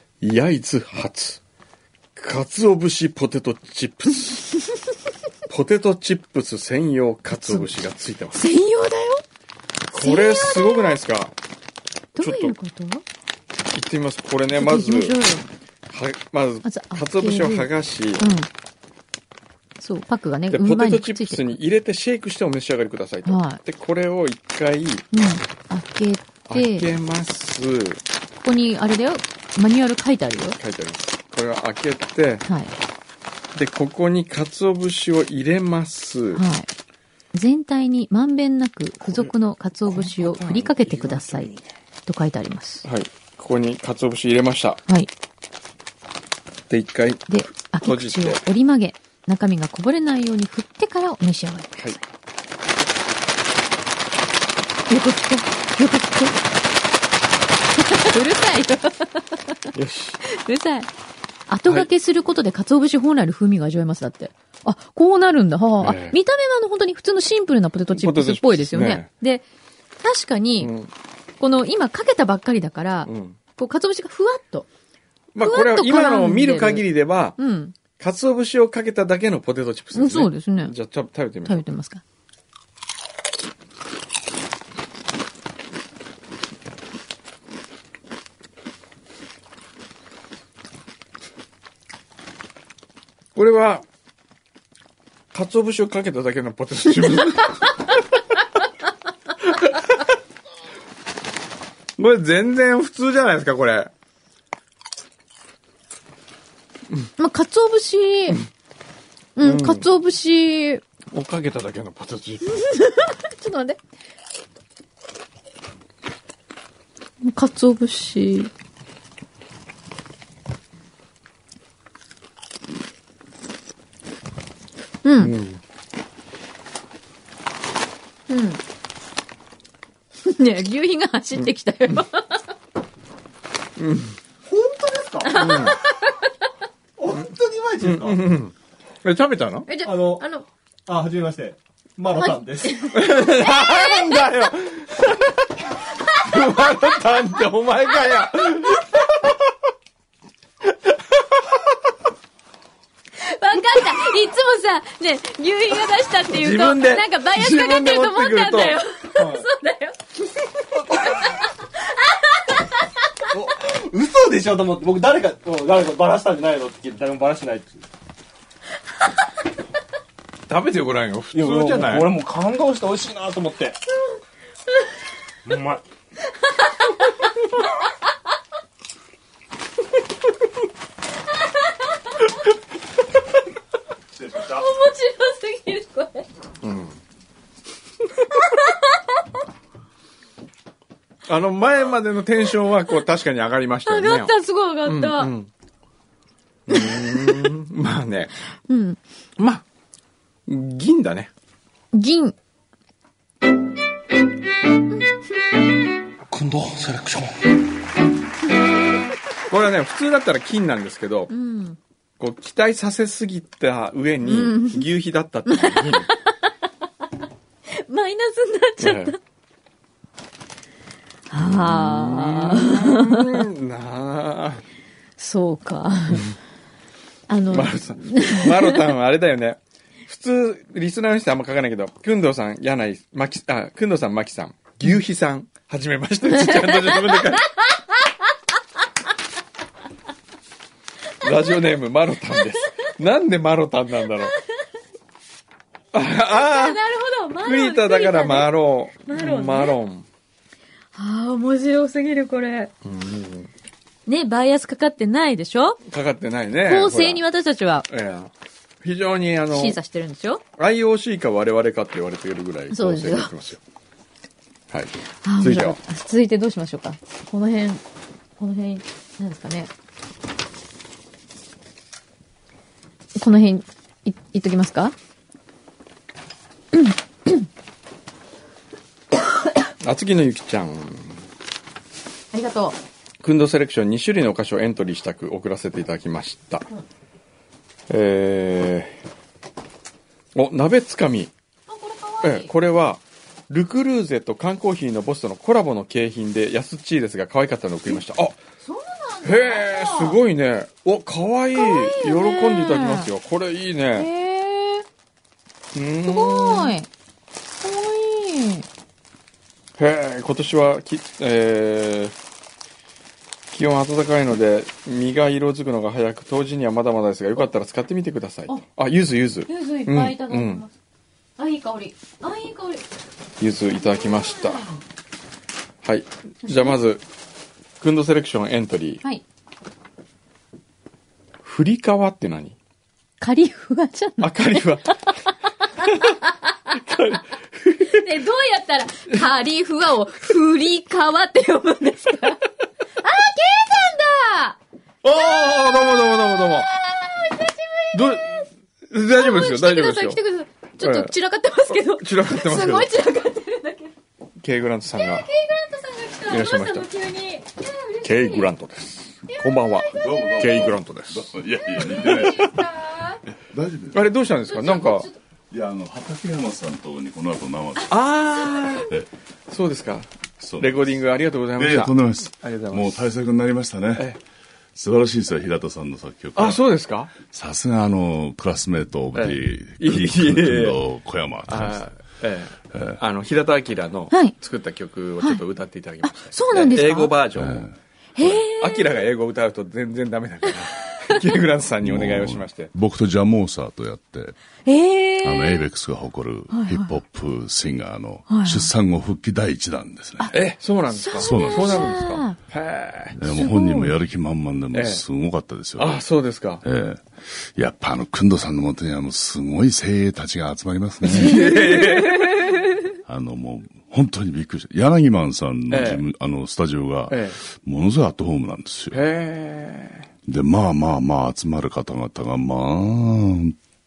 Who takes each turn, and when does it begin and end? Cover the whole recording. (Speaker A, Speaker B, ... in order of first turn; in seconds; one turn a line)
Speaker A: 0.2-1.4
Speaker A: 2.1-4.5
Speaker A: 5.5-8.5
Speaker B: 7.4-7.7
Speaker B: 8.4-9.2
Speaker A: 9.9-11.3
Speaker B: 9.9-11.0
Speaker B: 12.2-13.0
Speaker A: 12.2-12.5
Speaker A: 13.7-15.1
Speaker B: 14.6-15.4
Speaker A: 15.9-18.3
Speaker B: 16.6-17.7
Speaker B: 18.2-18.5
Speaker B: 19.8-21.6
Speaker A: 20.5-25.1
Speaker B: 23.2-23.6
Speaker B: 25.1-26.9
Speaker A: 26.5-28.0
Speaker B: 28.4-30.6
Speaker A: 30.6-32.4
Speaker B: 32.4-32.7
Speaker A: 33.5-36.4
Speaker B: 36.3-36.7
Speaker B: 37.3-41.5
Speaker A: 39.0-39.3
Speaker A: 39.9-41.7
Speaker B: 42.1-42.9
Speaker A: 42.8-44.8
Speaker A: 46.7-48.4
Speaker B: 47.3-52.0
Speaker B: 54.9-56.4
Speaker B: 57.8-59.5
Speaker A: 59.7-60.2
Speaker B: 60.2-60.9
Speaker B: 61.5-69.4
Speaker A: 65.8-66.2
Speaker A: 67.9-69.1
Speaker B: 70.0-70.7
Speaker A: 70.6-70.9
Speaker B: 71.4-74.7
Speaker A: 73.0-73.4
Speaker A: 75.3-77.4
Speaker B: 75.4-77.7
Speaker A: 78.0-81.6
Speaker B: 79.9-80.7
Speaker B: 81.5-82.0
Speaker A: 93.3-93.8
Speaker A: 95.3-97.7
Speaker A: 99.4-100.0
Speaker A: 102.0-103.9
Speaker B: 107.2-108.4
Speaker B: 109.4-110.8
Speaker A: 109.4-109.8
Speaker A: 111.1-112.6
Speaker B: 112.4-113.8
Speaker B: 117.2-118.5
Speaker B: 125.0-125.3
Speaker A: 125.2-125.6
Speaker B: 128.3-128.6
Speaker B: 130.2-132.4
Speaker A: 133.8-134.2
Speaker C: 134.4-135.7
Speaker B: 135.2-136.3
Speaker A: 135.3-135.8
Speaker C: 137.0-138.2
Speaker A: 137.8-139.7
Speaker B: 139.7-140.4
Speaker C: 139.8-140.2
Speaker C: 140.8-142.8
Speaker B: 142.1-144.3
Speaker A: 142.9-145.4
Speaker A: 146.2-149.3
Speaker B: 153.2-160.0
Speaker A: 156.3-158.8
Speaker C: 159.2-159.4
Speaker B: 161.8-162.7
Speaker C: 163.3-167.8
Speaker A: 170.5-172.1
Speaker C: 171.3-173.8
Speaker C: 175.4-175.8
Speaker B: 184.3-186.3
Speaker A: 186.6-186.9
Speaker B: 188.3-189.0
Speaker A: 191.3-194.3
Speaker B: 193.8-195.3
Speaker A: 194.8-195.5
Speaker A: 196.7-198.3
Speaker B: 196.7-197.4
Speaker B: 198.7-199.0
Speaker A: 199.4-199.6
Speaker A: 200.5-201.3
Speaker B: 201.9-202.3
Speaker C: 206.3-207.5
Speaker A: 209.5-211.3
Speaker B: 211.3-211.8
Speaker A: 212.2-216.1
Speaker B: 214.2-214.8
Speaker B: 215.5-216.3
Speaker B: 217.7-219.2
Speaker A: 218.8-219.1
Speaker B: 221.3-223.4
Speaker A: 221.3-224.6
Speaker B: 225.2-226.3
Speaker B: 227.3-228.8
Speaker A: 227.5-237.4
Speaker B: 236.5-238.0
Speaker A: 241.2-244.3
Speaker A: 245.9-246.8
Speaker B: 246.2-248.5
Speaker A: 247.4-250.1
Speaker B: 249.0-249.8
Speaker B: 250.9-252.7
Speaker A: 252.8-253.5
Speaker B: 254.1-255.8
Speaker A: 255.9-257.2
Speaker B: 256.6-257.9
Speaker A: 257.9-258.3
Speaker A: 258.8-259.8
Speaker B: 259.5-260.4
Speaker A: 260.6-263.6
Speaker B: 262.7-263.3
Speaker A: 264.7-265.8
Speaker B: 265.2-267.8
Speaker B: 268.4-269.7
Speaker B: 273.1-274.9
Speaker B: 276.7-277.5
Speaker A: 279.8-281.2
Speaker B: 282.3-282.8
Speaker A: 283.2-286.6
Speaker A: 287.9-289.0
Speaker A: 290.3-291.3
Speaker B: 291.7-292.5
Speaker A: 292.2-298.4
Speaker B: 298.6-300.2
Speaker A: 299.2-304.1
Speaker B: 301.5-303.1
Speaker B: 303.9-304.8
Speaker A: 305.7-306.7
Speaker B: 306.0-306.9
Speaker B: 307.6-308.6
Speaker A: 309.8-312.1
Speaker A: 313.5-320.6
Speaker B: 319.5-320.7
Speaker B: 321.4-322.8
Speaker A: 323.4-324.6
Speaker B: 323.8-324.8
Speaker A: 325.8-327.0
Speaker A: 327.8-329.0
Speaker A: 331.4-332.6
Speaker B: 333.2-335.1
Speaker A: 334.2-334.9
Speaker B: 335.8-336.8
Speaker A: 336.8-338.0
Speaker B: 337.8-342.4
Speaker B: 343.0-344.6
Speaker A: 345.0-346.7
Speaker B: 345.1-348.4
Speaker A: 347.9-350.2
Speaker B: 349.1-353.9
Speaker A: 350.8-351.1
Speaker A: 351.7-352.9
Speaker A: 354.4-355.3
Speaker B: 354.9-358.5
Speaker A: 356.3-356.9
Speaker A: 358.0-361.3
Speaker B: 359.3-360.6
Speaker D: 359.9-362.5
Speaker B: 361.7-363.2
Speaker A: 362.0-362.5
Speaker D: 363.4-364.1
Speaker A: 363.9-365.1
Speaker B: 364.5-365.1
Speaker D: 365.5-368.0
Speaker A: 367.9-368.9
Speaker A: 369.5-373.0
Speaker D: 370.4-371.0
Speaker D: 371.6-374.1
Speaker D: 374.7-376.6
Speaker A: 376.4-377.1
Speaker D: 377.2-381.9
Speaker A: 379.1-380.8
Speaker A: 381.5-387.7
Speaker B: 386.0-387.1
Speaker D: 387.4-387.7
Speaker B: 388.1-388.9
Speaker A: 388.2-392.7
Speaker B: 390.9-391.1
Speaker D: 391.8-394.4
Speaker B: 394.6-395.7
Speaker D: 395.2-400.3
Speaker B: 396.5-397.0
Speaker B: 398.3-398.7
Speaker A: 400.3-403.2
Speaker B: 400.9-402.4
Speaker D: 401.2-402.2
Speaker D: 403.1-406.0
Speaker B: 403.2-403.9
Speaker A: 404.7-405.0
Speaker A: 405.8-406.6
Speaker D: 406.6-411.6
Speaker A: 411.0-412.4
Speaker B: 411.1-412.6
Speaker D: 413.1-419.0
Speaker A: 415.7-416.0
Speaker A: 417.1-417.4
Speaker A: 418.9-420.1
Speaker D: 420.2-423.6